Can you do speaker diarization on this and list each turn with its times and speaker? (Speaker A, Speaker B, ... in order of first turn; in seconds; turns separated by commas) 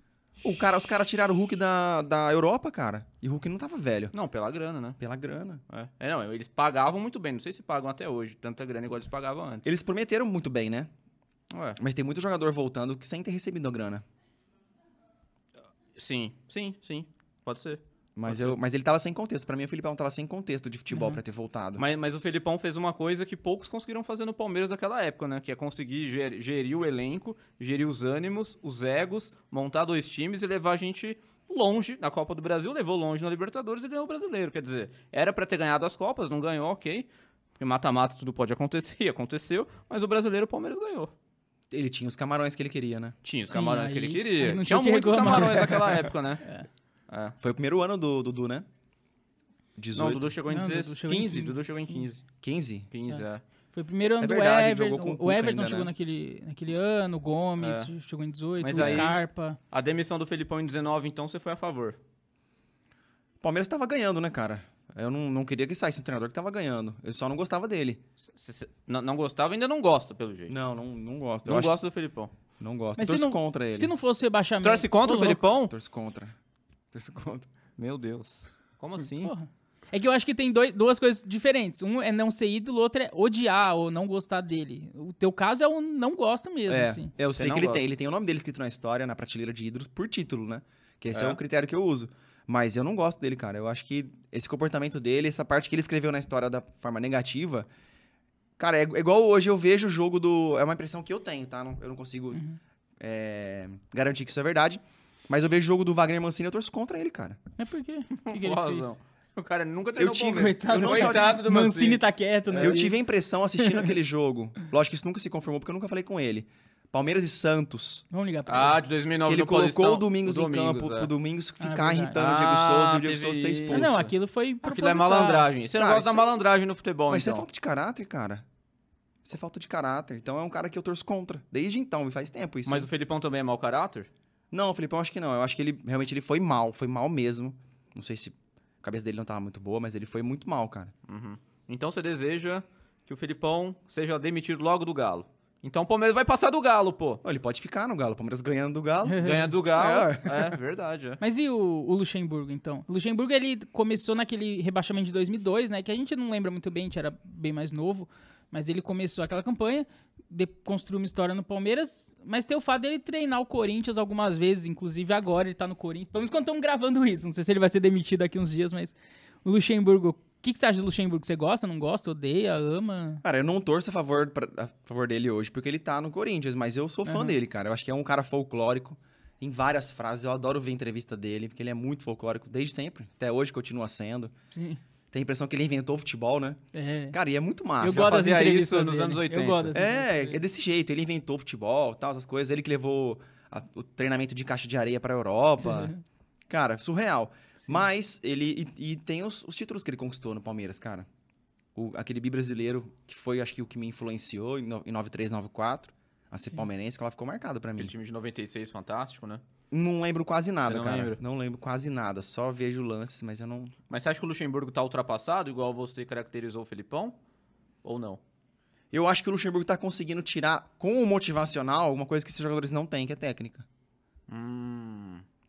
Speaker A: 0.4-4.1, Speaker B: 4.1-5.0, Speaker A: 5.0-5.6, Speaker B: 5.7-9.7, Speaker A: 9.7-10.9, Speaker B: 11.5-11.8, Speaker A: 11.8-14.0, Speaker B: 16.0-18.6, Speaker A: 18.2-21.8, Speaker C: 20.9-21.2, Speaker B: 21.8-37.1, Speaker B: 37.6-41.1, Speaker A: 41.7-43.2, Speaker B: 43.2-46.5, Speaker C: 43.5-46.7, Speaker A: 45.4-45.9, Speaker B: 47.1-47.4, Speaker A: 47.4-48.7, Speaker A: 49.8-50.4, Speaker B: 50.0-52.2, Speaker C: 50.5-52.0, Speaker A: 52.4-52.9, Speaker B: 52.9-53.4, Speaker C: 53.1-59.6, Speaker A: 54.2-55.9, Speaker B: 57.6-57.9, Speaker B: 58.6-59.2, Speaker A: 58.8-59.1, Speaker B: 59.7-62.0, Speaker A: 63.4-68.0, Speaker B: 68.3-70.5, Speaker A: 70.5-71.8, Speaker B: 71.5-72.3, Speaker A: 72.6-73.9, Speaker C: 73.0-75.5, Speaker B: 74.6-75.7, Speaker A: 75.7-76.3, Speaker A: 76.9-77.5, Speaker B: 77.8-79.3, Speaker C: 79.2-87.1, Speaker A: 86.7-97.7, Speaker B: 87.3-87.8, Speaker B: 91.1-91.4, Speaker A: 98.6-102.4, Speaker C: 102.3-102.6, Speaker A: 103.0-107.4, Speaker C: 107.6-108.9, Speaker B: 108.2-112.8, Speaker A: 110.0-111.4, Speaker C: 110.3-113.0, Speaker A: 112.6-118.0, Speaker C: 113.6-113.9, Speaker C: 118.1-118.8, Speaker B: 118.5-121.1, Speaker A: 119.2-124.0, Speaker C: 121.6-122.2, Speaker B: 122.1-127.5, Speaker C: 123.7-125.5, Speaker A: 125.8-128.4, Speaker A: 129.2-132.9, Speaker B: 132.7-134.1, Speaker A: 134.5-140.9, Speaker B: 141.1-147.2, Speaker A: 147.2-150.6, Speaker C: 149.1-149.5, Speaker B: 149.2-151.2, Speaker C: 151.2-173.2, Speaker A: 173.2-184.3, Speaker C: 177.1-177.3, Speaker C: 184.6-184.8, Speaker A: 185.1-186.6, Speaker C: 186.7-187.2, Speaker A: 187.1-188.2, Speaker C: 187.8-190.4, Speaker B: 187.8-189.7, Speaker A: 189.7-195.9, Speaker C: 195.6-196.0, Speaker A: 196.5-201.1, Speaker A: 201.8-207.9, Speaker B: 207.8-209.4, Speaker A: 209.7-213.7, Speaker B: 210.7-211.2, Speaker B: 213.9-217.2, Speaker B: 217.8-218.2, Speaker A: 218.9-223.7, Speaker B: 224.3-225.2